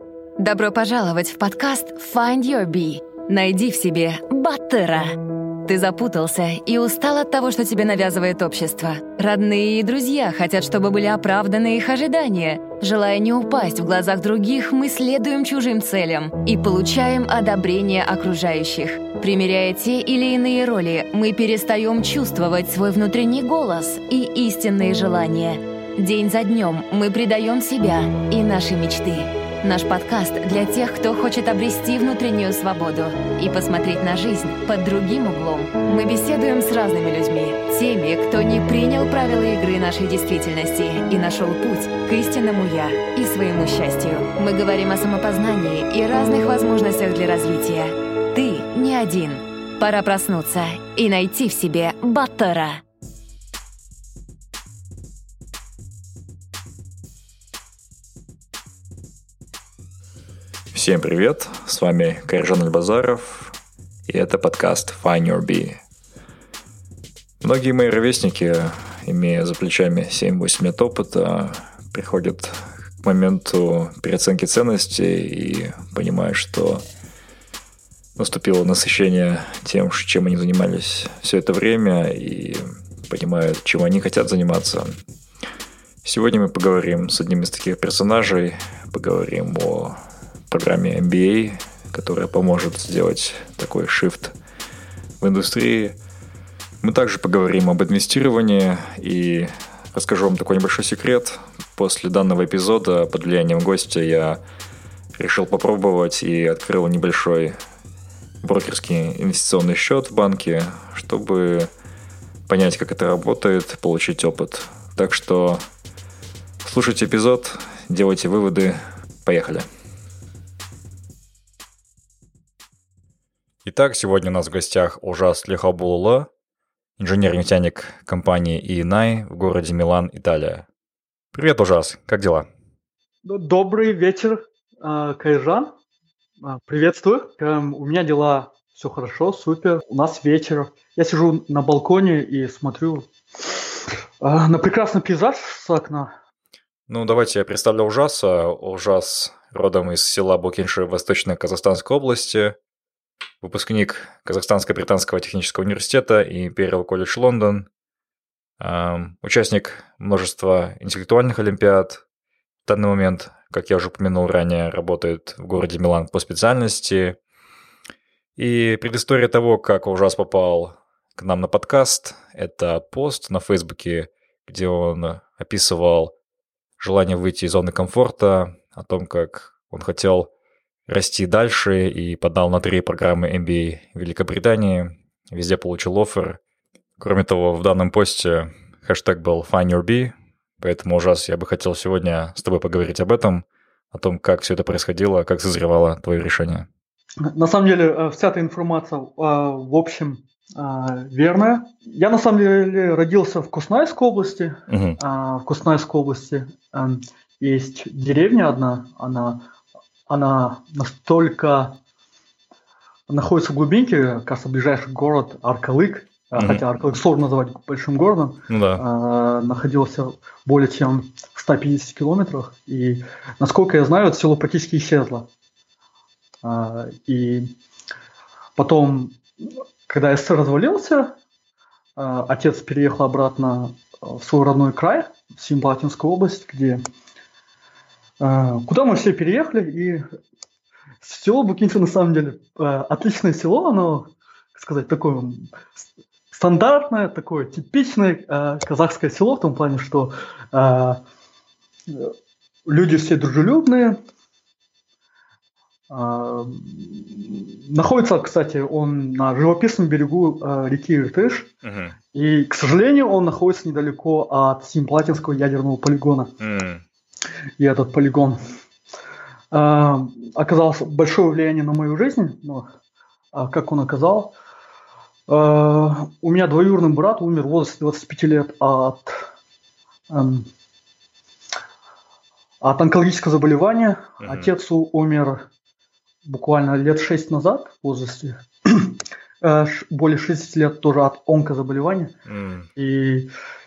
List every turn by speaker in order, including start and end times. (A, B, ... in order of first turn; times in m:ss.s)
0:00.4-0:52.8 A
1:00.7-1:03.6 B
1:04.1-1:05.8 B
1:07.4-1:16.8 B
1:18.2-1:25.0 B
1:26.0-1:30.0 B
1:30.5-1:34.4 B
1:35.2-1:36.0 B
1:36.8-1:44.4 B
1:45.2-1:47.6 B
1:48.4-1:51.7 B
1:52.5-1:55.6 B
1:56.6-1:59.7 B
2:03.6-2:06.3 B
2:07.0-2:10.7 B
2:11.3-2:12.5 B
2:13.2-2:15.7 C
2:16.4-2:26.1 C
2:26.9-2:32.6 B
2:33.4-2:37.7 B
2:38.6-2:42.0 B
2:42.7-2:47.2 B
2:48.4-2:56.1 B
2:56.8-3:00.3 B
3:00.9-3:06.4 B
3:07.0-3:16.7 B
3:17.2-3:29.4 C
3:24.7-3:25.0 B
3:30.1-3:31.8 C
3:33.1-3:45.3 C
3:36.4-3:36.6 B
3:38.5-3:38.8 B
3:46.4-3:47.5 C
3:48.6-3:51.2 C
3:52.0-3:56.8 C
3:58.2-4:00.0 C
4:01.0-4:11.0 C
4:11.9-4:12.1 C
4:12.7-4:14.0 C
4:15.9-4:21.5 C
4:21.6-4:22.0 B
4:22.1-4:26.3 C
4:26.4-4:26.8 B
4:27.6-4:28.4 C
4:29.5-4:32.7 C
4:33.3-4:34.3 C
4:35.3-4:39.3 C
4:40.1-4:40.5 C
4:42.6-4:45.4 C
4:44.2-4:44.5 B
4:46.2-4:52.1 C
4:52.3-4:52.7 B
4:52.8-4:53.3 C